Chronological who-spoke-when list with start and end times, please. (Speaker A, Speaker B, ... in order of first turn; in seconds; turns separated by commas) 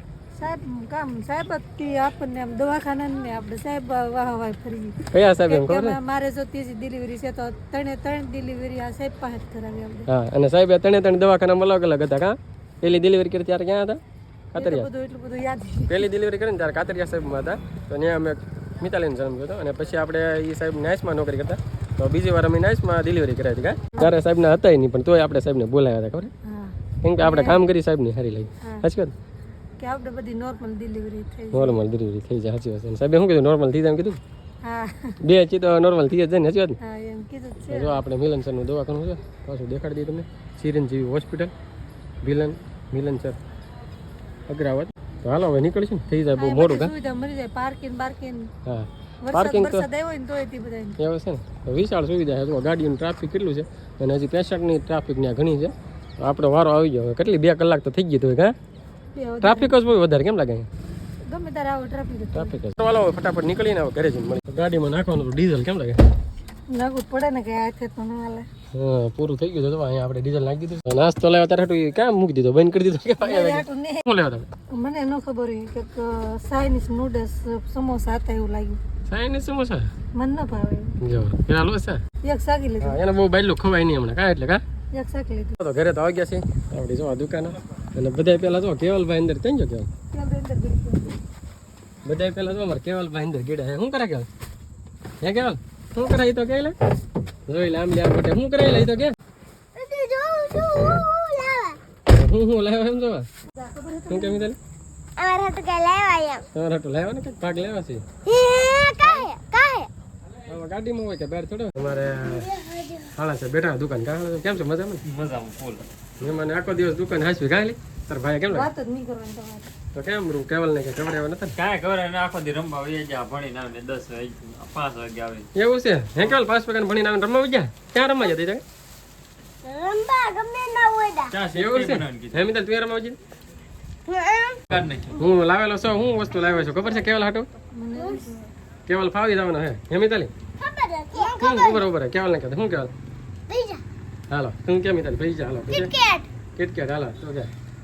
Speaker A: 0.3-10.1, Speaker B: 5.1-6.0, Speaker B: 10.1-14.0, Speaker B: 14.5-14.9, Speaker A: 14.6-16.1, Speaker B: 15.9-26.3, Speaker A: 26.4-27.6, Speaker B: 27.0-29.1, Speaker A: 29.8-31.8, Speaker B: 31.5-34.2, Speaker A: 34.6-35.2, Speaker B: 35.2-36.8, Speaker A: 36.8-38.0, Speaker B: 37.7-41.5, Speaker B: 42.2-43.4, Speaker B: 44.5-46.9, Speaker A: 46.4-48.5, Speaker B: 48.6-49.9, Speaker A: 49.2-51.0, Speaker B: 51.0-58.5, Speaker A: 59.1-59.7, Speaker B: 59.4-60.7, Speaker A: 61.2-62.5, Speaker B: 62.3-66.0, Speaker A: 66.7-68.5, Speaker B: 68.7-74.5, Speaker A: 73.2-74.0, Speaker A: 74.7-78.8, Speaker B: 79.1-79.9, Speaker A: 80.1-81.0, Speaker B: 81.0-82.0, Speaker A: 82.2-83.0, Speaker B: 82.8-84.6, Speaker A: 84.9-85.5, Speaker B: 85.6-89.9, Speaker A: 90.1-91.2, Speaker B: 92.0-94.3, Speaker B: 95.2-96.7, Speaker B: 97.5-99.1, Speaker C: 99.8-101.8, Speaker B: 102.1-103.3, Speaker A: 103.5-104.4, Speaker B: 104.1-104.6, Speaker C: 105.2-106.4, Speaker B: 106.5-108.0, Speaker C: 108.2-109.9, Speaker B: 110.5-112.5, Speaker C: 112.2-113.1, Speaker B: 113.1-115.0, Speaker D: 115.0-115.8, Speaker B: 116.2-118.7, Speaker A: 118.5-119.7, Speaker B: 119.9-121.5, Speaker D: 121.5-125.5, Speaker B: 125.5-128.6, Speaker C: 129.6-131.3, Speaker D: 131.3-132.4, Speaker B: 131.5-133.2, Speaker C: 134.1-134.6, Speaker D: 134.7-135.2, Speaker B: 135.1-137.5, Speaker A: 137.7-138.5, Speaker C: 137.9-138.2, Speaker B: 138.9-140.3, Speaker C: 140.6-141.8, Speaker B: 141.4-142.9, Speaker C: 143.5-143.8, Speaker B: 144.3-145.9, Speaker C: 145.7-146.3, Speaker B: 146.6-147.5